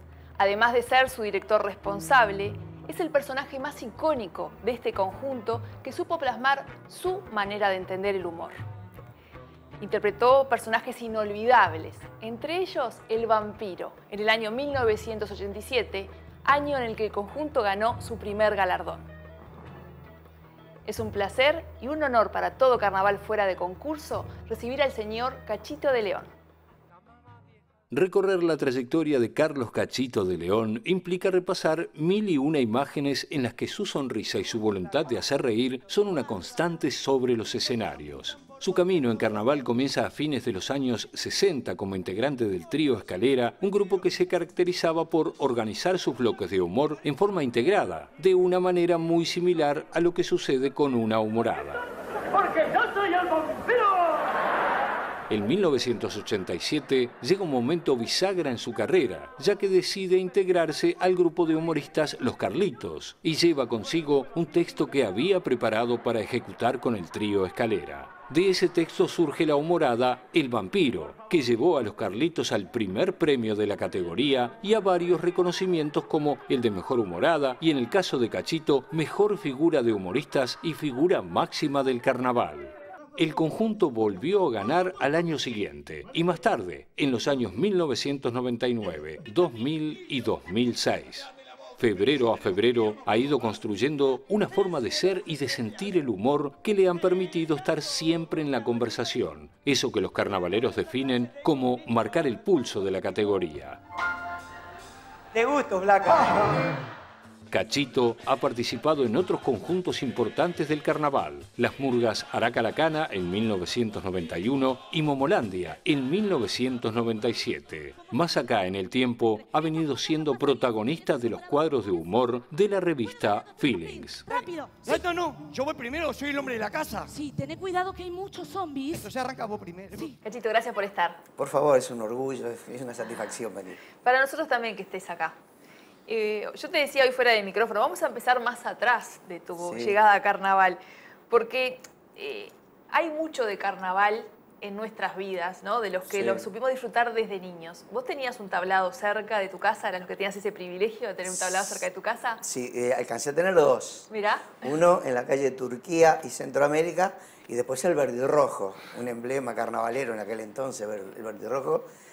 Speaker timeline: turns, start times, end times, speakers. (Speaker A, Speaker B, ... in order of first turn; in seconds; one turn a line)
Speaker A: 0.4-8.5
Speaker A: 9.8-19.1
Speaker A: 20.9-26.3
Speaker B: 27.9-51.8
Speaker B: 55.3-103.8
Speaker C: 105.3-106.5
Speaker B: 107.5-124.3
Speaker D: 124.3-124.8
Speaker C: 124.3-127.1
Speaker D: 127.1-129.1
Speaker C: 128.9-130.0
Speaker A: 130.2-131.2
Speaker E: 131.3-133.8
Speaker A: 134.0-135.4
Speaker A: 136.1-152.4
Speaker E: 139.6-140.0
Speaker E: 146.1-146.5
Speaker E: 151.4-151.8
Speaker E: 152.4-161.9
Speaker A: 154.1-154.6